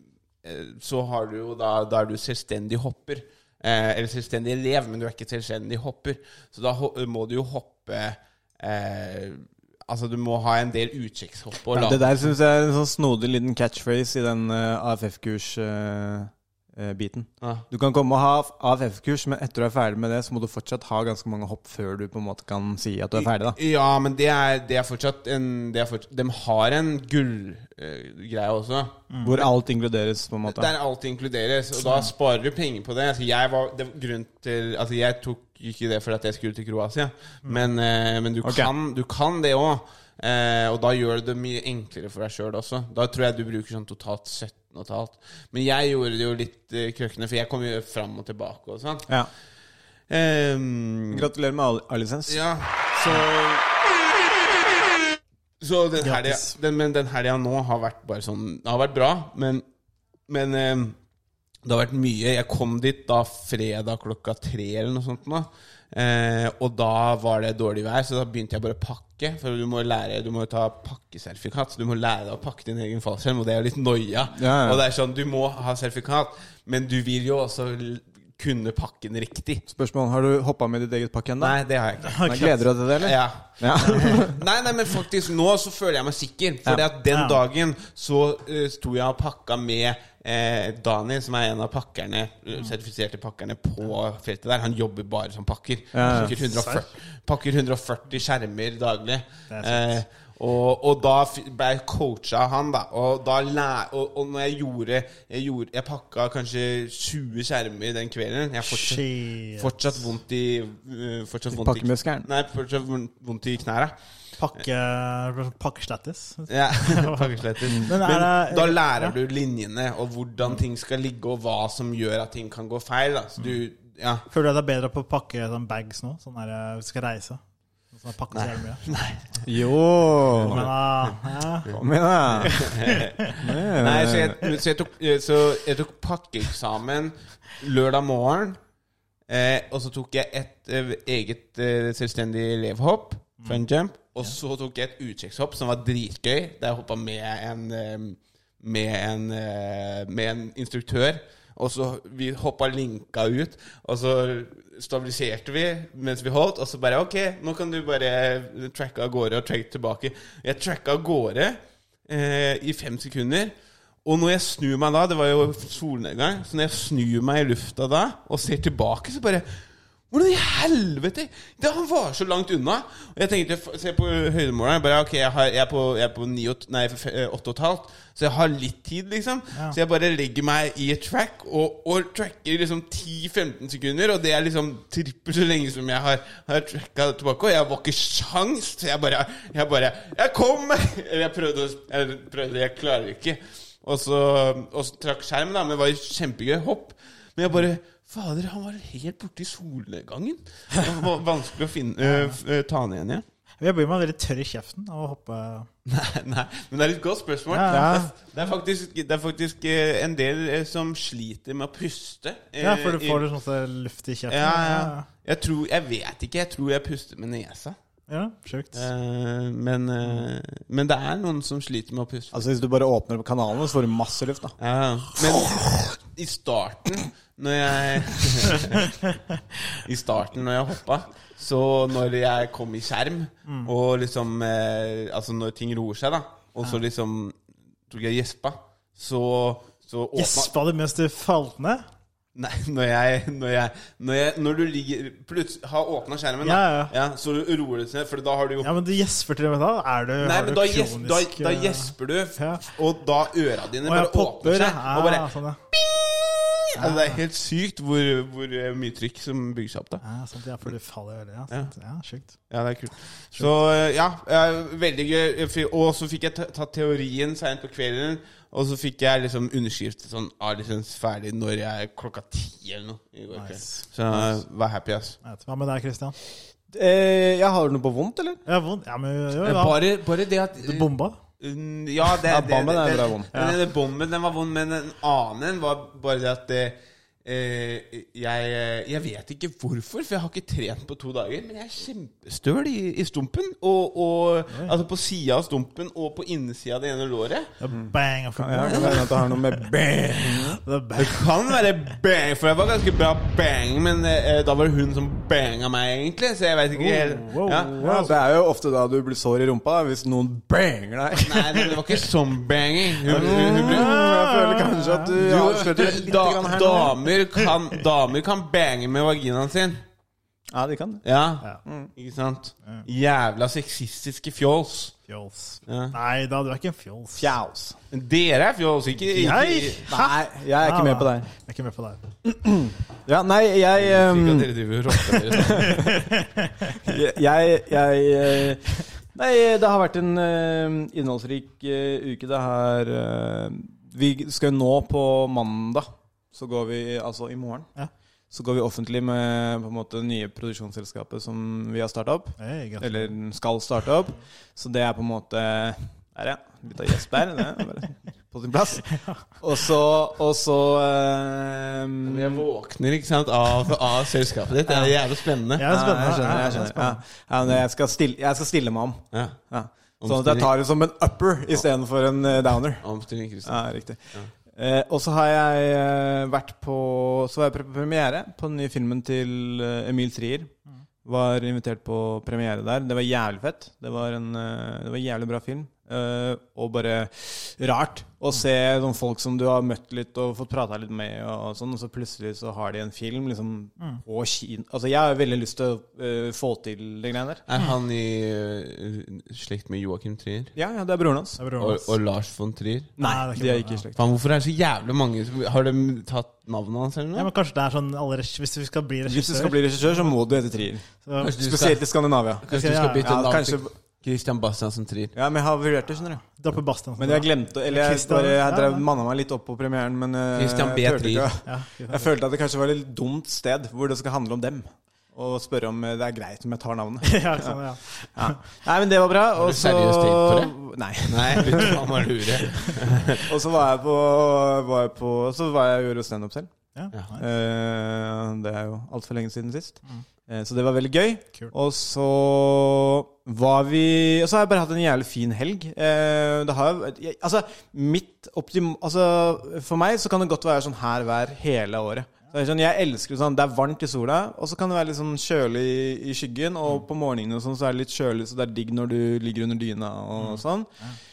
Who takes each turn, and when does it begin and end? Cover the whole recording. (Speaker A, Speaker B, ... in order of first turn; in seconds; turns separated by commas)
Speaker A: 0.4-12.2, Speaker B: 11.7-23.6, Speaker A: 23.1-29.0, Speaker B: 29.2-30.7, Speaker A: 30.5-49.1, Speaker B: 38.4-38.7, Speaker A: 50.1-51.3, Speaker B: 51.1-52.4, Speaker A: 52.3-53.6, Speaker A: 55.6-59.6, Speaker C: 56.0-56.5, Speaker A: 60.3-61.0, Speaker A: 61.6-79.6, Speaker B: 74.3-74.8, Speaker B: 79.7-81.6, Speaker A: 81.4-113.9, Speaker C: 82.0-82.5, Speaker B: 82.2-84.3, Speaker C: 87.1-87.4, Speaker B: 95.9-96.3, Speaker C: 96.1-96.8, Speaker C: 99.5-100.0, Speaker C: 108.7-109.7, Speaker B: 111.5-112.3, Speaker C: 114.4-117.3, Speaker A: 116.5-124.2, Speaker C: 117.8-119.1, Speaker C: 124.3-127.4, Speaker C: 127.9-128.8, Speaker A: 128.3-129.2, Speaker B: 129.4-130.6, Speaker A: 130.4-131.8, Speaker C: 130.5-131.7, Speaker B: 131.7-132.7, Speaker A: 132.4-138.6, Speaker B: 133.4-134.5, Speaker A: 139.3-163.5, Speaker A: 164.0-203.2, Speaker C: 202.0-202.4, Speaker C: 203.6-205.7, Speaker A: 205.8-213.2, Speaker C: 207.5-208.1, Speaker B: 207.7-208.0, Speaker C: 212.6-215.1, Speaker A: 214.3-217.8, Speaker C: 218.1-218.8, Speaker A: 218.7-222.4, Speaker B: 222.3-224.6, Speaker A: 224.6-228.9, Speaker A: 229.8-237.3, Speaker A: 237.9-240.5, Speaker C: 240.2-241.8, Speaker A: 242.3-248.7, Speaker C: 246.4-246.9, Speaker C: 248.6-252.6, Speaker A: 250.2-260.0, Speaker C: 253.8-255.6, Speaker C: 256.8-257.2, Speaker C: 260.0-262.3, Speaker A: 262.5-275.2, Speaker C: 273.3-273.8, Speaker C: 275.2-276.1, Speaker B: 276.7-278.4, Speaker C: 278.4-279.8, Speaker A: 279.4-297.5, Speaker C: 280.6-281.2, Speaker B: 282.2-283.3, Speaker C: 297.6-299.6, Speaker B: 297.7-300.6, Speaker A: 298.7-299.0, Speaker C: 300.6-301.2, Speaker A: 301.0-308.1, Speaker C: 306.7-308.1, Speaker B: 307.8-311.6, Speaker A: 311.2-313.9, Speaker B: 313.0-317.0, Speaker C: 313.2-315.1, Speaker A: 315.2-319.8, Speaker B: 320.5-321.0, Speaker A: 321.0-324.9, Speaker B: 321.6-321.9, Speaker C: 325.1-327.3, Speaker A: 325.7-325.9, Speaker B: 327.2-327.8, Speaker A: 327.9-329.9, Speaker C: 329.1-332.0, Speaker B: 329.9-331.3, Speaker B: 332.2-334.5, Speaker A: 333.8-335.8, Speaker B: 335.4-336.0, Speaker C: 335.5-336.7, Speaker B: 336.8-347.7, Speaker B: 348.3-362.4, Speaker C: 352.4-353.1, Speaker A: 362.0-365.6, Speaker C: 365.6-367.0, Speaker B: 365.6-372.9, Speaker A: 369.1-369.4, Speaker A: 370.0-370.5, Speaker A: 372.8-374.3, Speaker B: 373.4-374.0, Speaker B: 374.5-380.5, Speaker B: 381.0-397.4, Speaker A: 397.5-400.5, Speaker B: 400.5-401.4, Speaker C: 401.4-401.9, Speaker A: 401.6-402.9, Speaker B: 403.0-404.0, Speaker C: 403.0-403.8, Speaker A: 403.9-407.3, Speaker C: 407.1-410.2, Speaker B: 409.1-410.8, Speaker C: 411.0-411.3, Speaker A: 411.2-411.8, Speaker B: 411.4-412.4, Speaker A: 412.4-415.1, Speaker C: 412.5-413.1, Speaker B: 413.0-413.7, Speaker B: 415.1-416.2, Speaker C: 416.3-418.8, Speaker B: 417.0-427.6, Speaker A: 420.3-421.3, Speaker C: 421.4-422.1, Speaker C: 427.0-428.4, Speaker B: 428.1-431.8, Speaker A: 429.4-430.5, Speaker A: 431.1-433.2, Speaker B: 433.3-436.5, Speaker C: 436.7-437.2, Speaker B: 437.2-460.7, Speaker C: 460.2-461.0